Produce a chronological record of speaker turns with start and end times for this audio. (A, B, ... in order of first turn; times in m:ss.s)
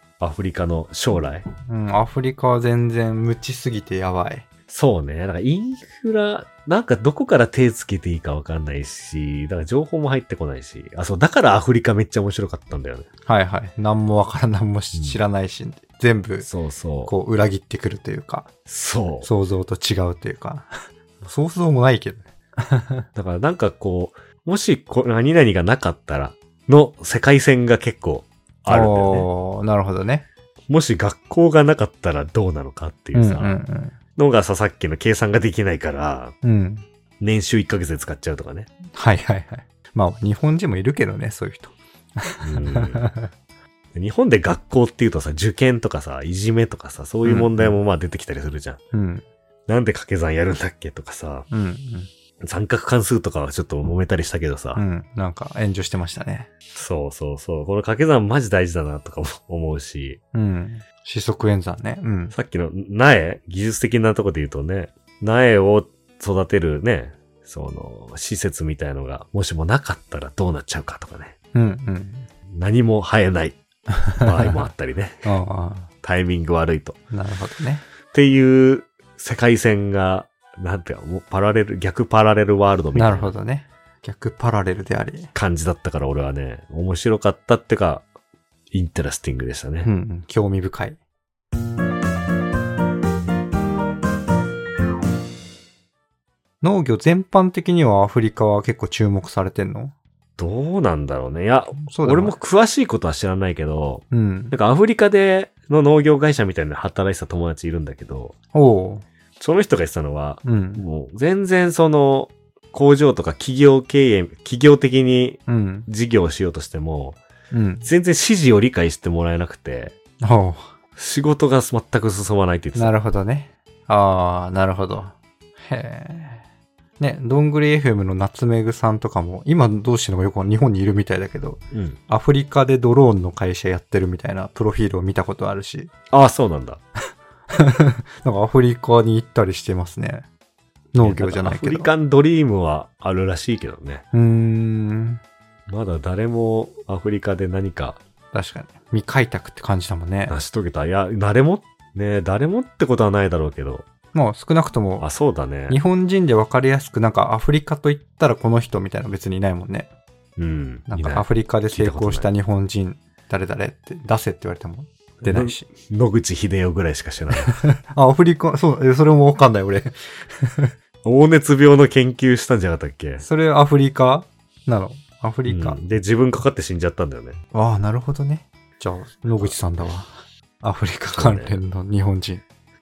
0:00.2-0:01.4 A
0:01.6-0:04.4 B
0:04.7-0:13.1 A
0:13.2-0:16.5 B
0:14.9-0:15.2 A
0:16.4-0:17.1 A
0:17.0-0:18.5 B
0:18.7-0:19.3 A
0:19.2-0:23.0 B
0:23.1-0:29.3 A
0:28.7-0:30.2 B
0:30.7-0:33.6 A
0:33.1-0:34.0 B
0:34.2-0:36.3 A
0:36.4-0:36.9 B
0:37.2-0:38.7 A
0:38.9-0:43.3 B
0:42.4-0:43.1 A
0:43.9-0:48.8 A
0:47.2-0:47.8 B
0:48.9-0:49.2 B
0:49.7-0:51.5 A
0:51.5-0:52.1 B
0:52.4-0:54.8 A
0:54.8-0:56.5 B
0:56.7-1:00.2 A
1:00.3-1:02.3 B
1:02.3-1:11.3 A
1:11.5-1:12.3 B
1:12.6-1:13.6 A
1:14.1-1:15.2 A
1:15.2-1:15.9 B
1:16.0-1:17.0 A
1:17.1-1:17.8 B
1:18.1-1:23.3 A
1:23.0-1:25.3 B
1:25.3-1:28.1 A
1:28.7-1:29.9 A
1:29.8-1:31.0 B
1:36.6-1:40.0 B
1:40.4-1:48.3 A
1:41.8-1:42.4 B
1:44.1-1:44.5 B
1:48.5-1:49.0 B
1:49.4-1:57.2 A
1:50.4-1:50.8 B
1:55.5-1:55.9 B
1:57.5-1:57.9 B
1:57.8-2:00.0 A
2:00.2-2:00.7 B
2:01.0-2:03.0 A
2:02.8-2:06.4 B
2:07.0-2:15.9 B
2:11.7-2:12.0 A
2:16.1-2:16.8 A
2:17.5-2:20.3 B
2:20.9-2:21.9 B
2:21.0-2:24.0 A
2:24.1-2:25.2 B
2:25.7-2:28.0 A
2:28.3-2:30.4 B
2:30.3-2:33.8 A
2:34.1-2:35.1 B
2:35.0-2:35.8 A
2:35.7-2:39.9 B
2:40.4-2:42.3 A
2:40.9-2:45.7 B
2:45.2-2:47.6 A
2:47.4-2:50.7 B
2:51.0-2:53.2 A
2:53.2-2:55.8 B
2:55.5-2:57.4 A
2:57.5-3:02.4 B
3:01.1-3:01.6 A